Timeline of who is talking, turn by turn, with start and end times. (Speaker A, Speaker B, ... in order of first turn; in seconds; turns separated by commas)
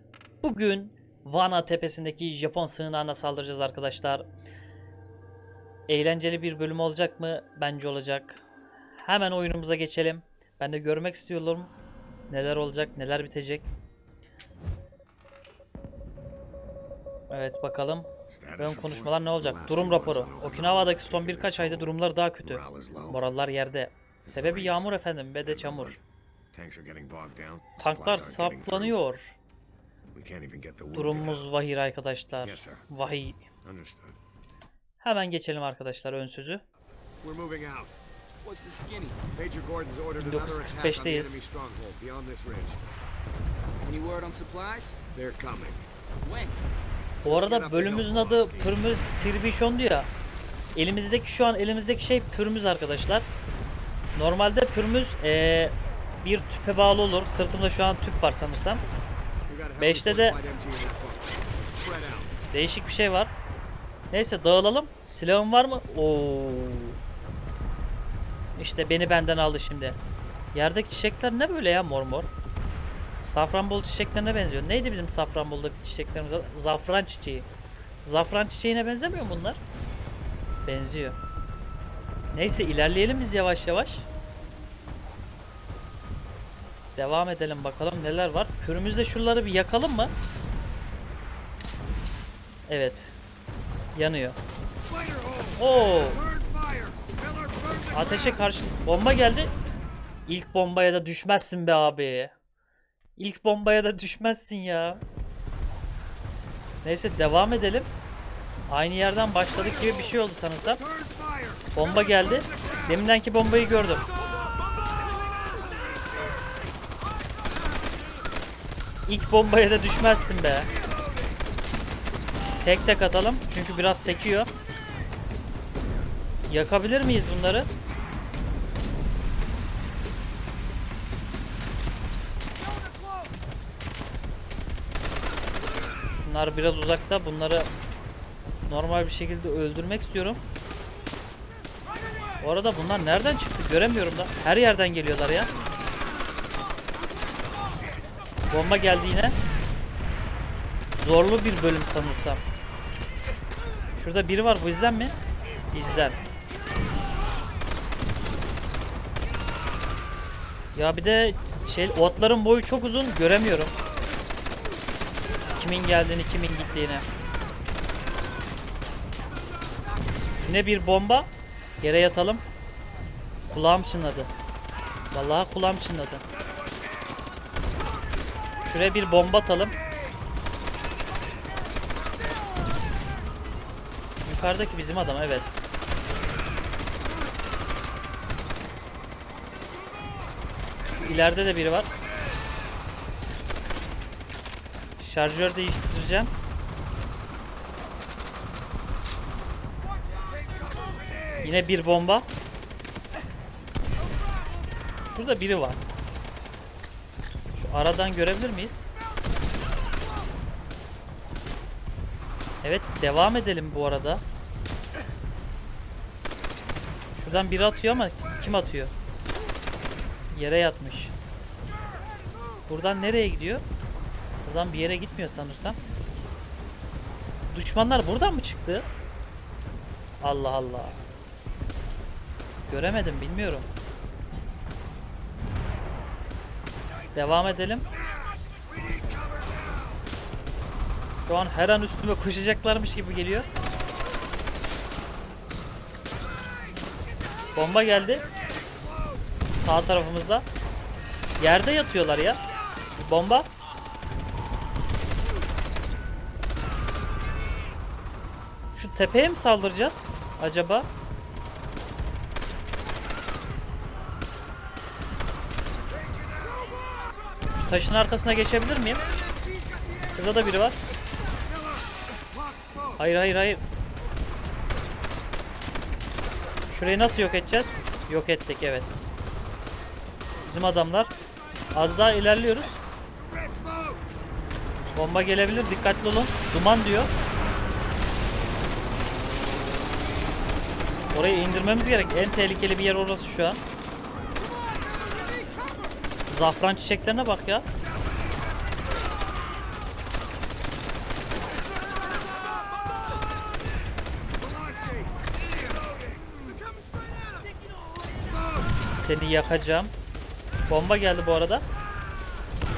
Speaker A: 0.4-4.3, Speaker A: 5.9-8.4, Speaker A: 9.0-11.7, Speaker A: 12.3-13.7, Speaker A: 17.3-26.0, Speaker B: 18.3-23.2, Speaker B: 24.2-26.0, Speaker B: 26.5-29.0, Speaker A: 27.8-29.4, Speaker B: 30.1-31.5, Speaker A: 30.9-33.5, Speaker B: 32.4-32.9, Speaker B: 33.6-34.2, Speaker A: 35.0-36.6, Speaker B: 37.2-37.9, Speaker C: 38.4-39.2, Speaker B: 39.4-42.8, Speaker A: 40.2-41.4, Speaker C: 43.8-45.0, Speaker B: 45.1-45.9, Speaker C: 46.2-46.6, Speaker B: 47.2-48.9, Speaker A: 47.2-50.1, Speaker A: 50.8-53.3, Speaker A: 54.2-58.8, Speaker B: 59.5-62.4, Speaker A: 59.8-60.4, Speaker A: 62.5-63.3, Speaker A: 64.1-67.0, Speaker A: 68.6-70.0, Speaker A: 70.5-72.3, Speaker A: 73.2-77.5, Speaker A: 78.0-79.6, Speaker A: 80.7-81.2, Speaker A: 82.3-84.1, Speaker A: 87.0-90.1, Speaker A: 92.7-93.2, Speaker A: 93.9-94.4, Speaker B: 94.9-98.4, Speaker A: 95.6-96.2, Speaker A: 97.9-99.5, Speaker A: 100.3-102.3, Speaker A: 103.2-105.0, Speaker A: 106.8-107.9, Speaker A: 108.7-110.8, Speaker B: 109.6-110.1, Speaker B: 110.7-111.8, Speaker A: 111.7-114.1, Speaker B: 112.4-113.0, Speaker B: 115.7-116.4, Speaker A: 119.1-120.7, Speaker B: 120.7-121.4, Speaker A: 122.6-124.5, Speaker A: 126.5-127.7, Speaker C: 133.0-133.3, Speaker A: 136.1-137.7, Speaker A: 138.7-140.4, Speaker A: 142.4-145.5, Speaker A: 148.5-149.4, Speaker A: 151.0-152.4, Speaker A: 154.0-155.2, Speaker A: 155.7-156.2, Speaker A: 160.8-163.7, Speaker A: 165.6-167.1, Speaker A: 170.4-171.3, Speaker A: 171.8-172.4, Speaker A: 173.5-174.3, Speaker A: 175.1-176.2, Speaker B: 176.5-177.1, Speaker A: 178.6-179.8, Speaker A: 184.2-185.5, Speaker A: 190.9-191.9, Speaker A: 195.0-196.3, Speaker B: 200.3-201.5, Speaker A: 201.4-202.3, Speaker A: 205.1-205.8, Speaker A: 207.6-208.9, Speaker A: 212.6-214.2, Speaker A: 217.2-218.9, Speaker A: 220.3-221.1, Speaker A: 222.7-223.6, Speaker A: 224.4-225.8, Speaker A: 227.5-228.9, Speaker A: 230.2-231.0, Speaker A: 232.7-233.7, Speaker A: 237.2-237.9, Speaker B: 237.9-240.0, Speaker A: 241.2-243.5, Speaker A: 247.6-248.2, Speaker B: 248.1-249.3, Speaker A: 249.5-250.5, Speaker A: 251.4-252.4, Speaker A: 253.0-253.5, Speaker A: 258.8-260.9, Speaker B: 265.9-267.1, Speaker A: 267.6-269.1, Speaker A: 270.1-270.8, Speaker B: 271.4-273.0, Speaker A: 273.0-273.6, Speaker A: 276.7-278.9, Speaker A: 280.4-281.1, Speaker A: 281.7-282.8, Speaker B: 283.2-284.0, Speaker A: 284.9-287.1, Speaker A: 291.1-293.6, Speaker A: 296.3-297.7, Speaker B: 304.4-306.4, Speaker A: 308.9-309.9, Speaker A: 310.7-311.7